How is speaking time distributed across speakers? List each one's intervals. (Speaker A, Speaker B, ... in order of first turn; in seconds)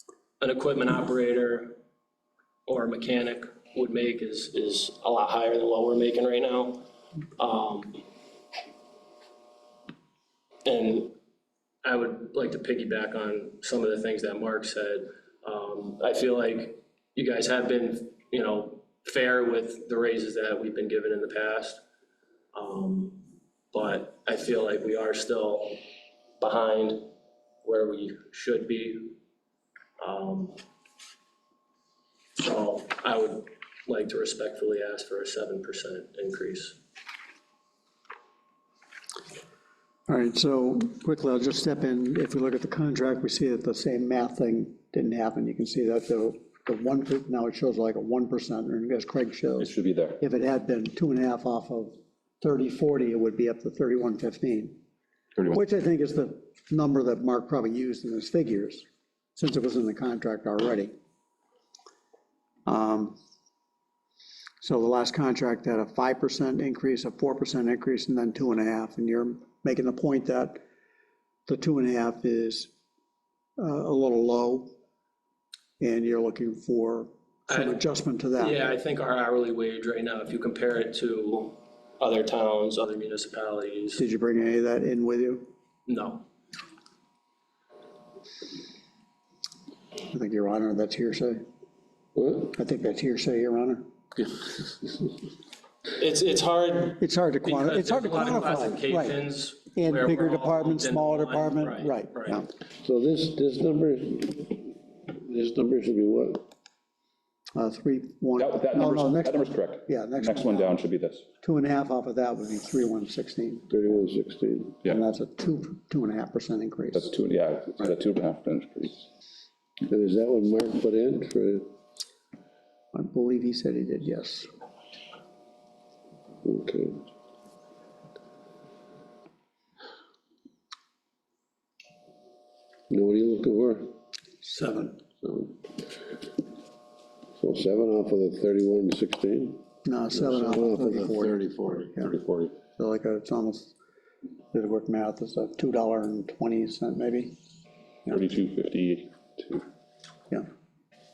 Speaker A: 0.4-1.8, 2.6-6.8, 7.4-8.0, 10.6-11.1, 11.8-21.8, 22.5-25.8, 26.4-27.1, 27.6-29.1, 30.0-30.6, 32.4-36.8, 77.5-77.8, 78.4-84.0, 85.9-86.2, 96.0-102.4
Speaker B: 40.1-54.8, 55.5-58.8, 59.4-60.9, 62.6-63.2, 64.6-70.6, 71.5-72.7, 73.6-74.7, 75.8-78.6, 84.0-85.5, 90.1-91.4, 92.5-93.8, 97.0-99.2, 99.7-102.5, 107.5-110.8, 111.4-113.7, 114.8-117.1, 122.9-124.5, 134.4-135.0, 139.8-141.4, 142.8-143.7, 144.5-147.3
Speaker C: 49.6-50.2, 108.4-111.2, 116.9-119.0, 148.1-149.6
Speaker D: 92.2-92.5, 94.2-94.6, 102.8-106.4, 113.7-114.8, 119.9-121.7, 126.4-127.0, 132.9-133.9, 135.2-135.6, 137.4-142.5